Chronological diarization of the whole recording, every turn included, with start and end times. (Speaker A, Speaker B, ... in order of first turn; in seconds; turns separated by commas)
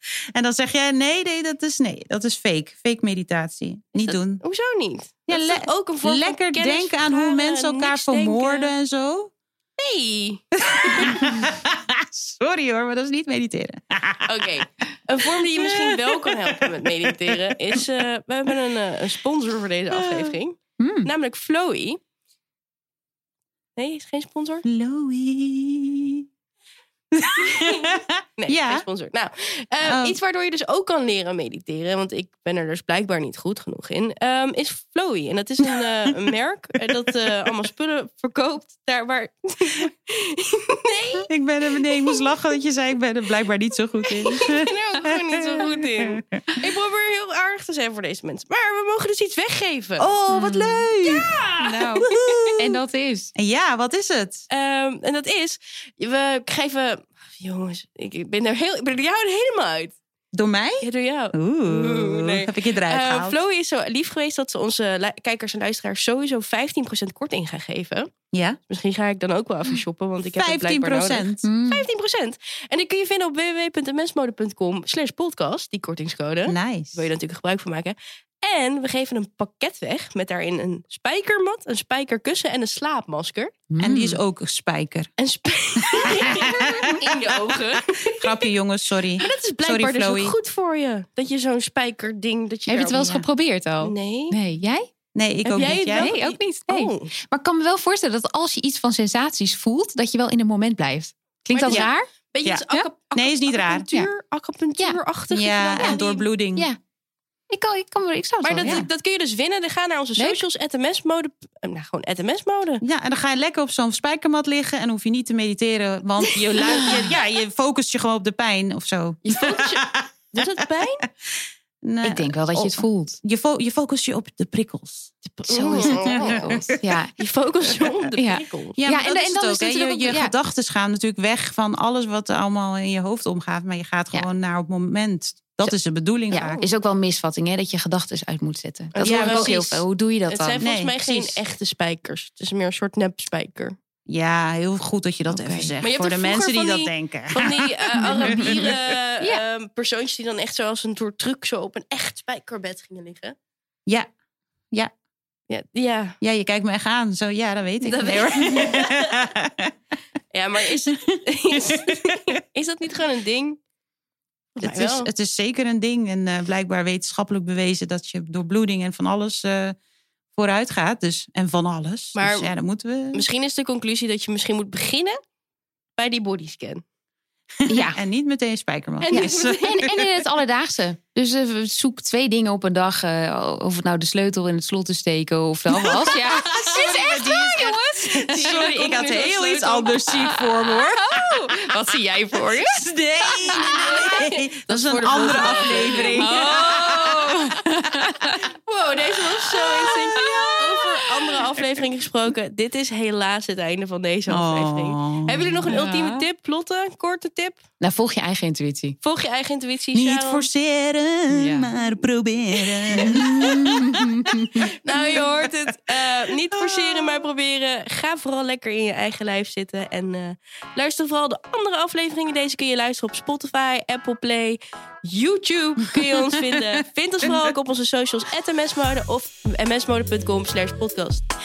Speaker A: 0.3-4.4, Speaker B: 4.0-8.7, Speaker A: 5.3-9.3, Speaker B: 9.8-11.2, Speaker A: 10.6-14.5, Speaker B: 14.2-22.0, Speaker A: 15.6-16.3, Speaker A: 19.9-20.3, Speaker C: 20.8-21.1, Speaker B: 23.8-24.6, Speaker A: 24.6-26.2, Speaker A: 27.1-28.8, Speaker B: 27.4-41.3, Speaker A: 29.8-30.2, Speaker A: 41.3-46.4, Speaker B: 41.9-42.2, Speaker B: 44.1-50.1, Speaker A: 50.0-52.7, Speaker C: 50.3-50.9, Speaker B: 51.0-52.5, Speaker C: 51.6-53.3, Speaker A: 53.4-54.4, Speaker B: 54.5-60.0, Speaker A: 60.3-63.4, Speaker B: 60.8-68.1, Speaker A: 68.3-68.6, Speaker B: 68.7-83.5, Speaker A: 70.3-71.4, Speaker C: 71.4-71.8, Speaker A: 76.5-77.0, Speaker C: 83.7-84.2, Speaker A: 83.8-85.1, Speaker B: 85.2-88.5, Speaker A: 86.3-90.3, Speaker B: 89.2-93.2, Speaker C: 92.7-94.9, Speaker B: 93.8-94.4, Speaker A: 95.1-96.1, Speaker B: 95.4-97.1, Speaker C: 95.9-102.1, Speaker B: 101.5-106.3, Speaker A: 102.4-103.9, Speaker A: 105.3-106.7, Speaker C: 107.5-108.8, Speaker B: 108.4-112.8, Speaker A: 108.6-108.9, Speaker C: 110.2-110.4, Speaker A: 112.8-120.1, Speaker B: 119.2-121.1, Speaker A: 121.8-125.1, Speaker C: 122.0-123.2, Speaker B: 125.2-126.5, Speaker C: 125.5-127.1, Speaker A: 125.7-126.8, Speaker B: 127.2-128.8, Speaker C: 128.2-130.3, Speaker A: 128.8-136.7, Speaker C: 136.3-140.6, Speaker B: 138.9-143.8, Speaker A: 139.0-139.6, Speaker A: 140.6-141.3, Speaker A: 144.1-147.7, Speaker C: 145.2-145.7, Speaker B: 145.8-153.3, Speaker C: 148.0-148.7, Speaker A: 148.2-148.8, Speaker B: 155.5-156.2, Speaker A: 156.2-159.7, Speaker B: 157.8-159.2, Speaker B: 160.3-163.6, Speaker A: 160.9-161.2, Speaker B: 164.6-165.1, Speaker A: 164.6-169.8, Speaker A: 170.3-173.2, Speaker B: 172.2-172.5, Speaker B: 173.1-175.2, Speaker B: 176.0-176.8, Speaker A: 177.6-179.9, Speaker C: 177.7-178.0, Speaker B: 179.0-179.9, Speaker C: 179.1-188.7, Speaker A: 185.8-191.4, Speaker B: 188.3-190.1, Speaker C: 190.3-194.2, Speaker A: 192.5-197.1, Speaker B: 193.4-197.2, Speaker C: 195.1-198.5, Speaker B: 198.7-207.6, Speaker C: 199.4-201.4, Speaker A: 204.3-205.7, Speaker C: 205.7-206.2, Speaker C: 207.8-209.0, Speaker B: 209.0-210.5, Speaker A: 209.9-213.7, Speaker C: 211.3-211.7, Speaker C: 212.9-214.7, Speaker B: 213.0-213.9, Speaker B: 214.6-231.3, Speaker A: 216.5-217.2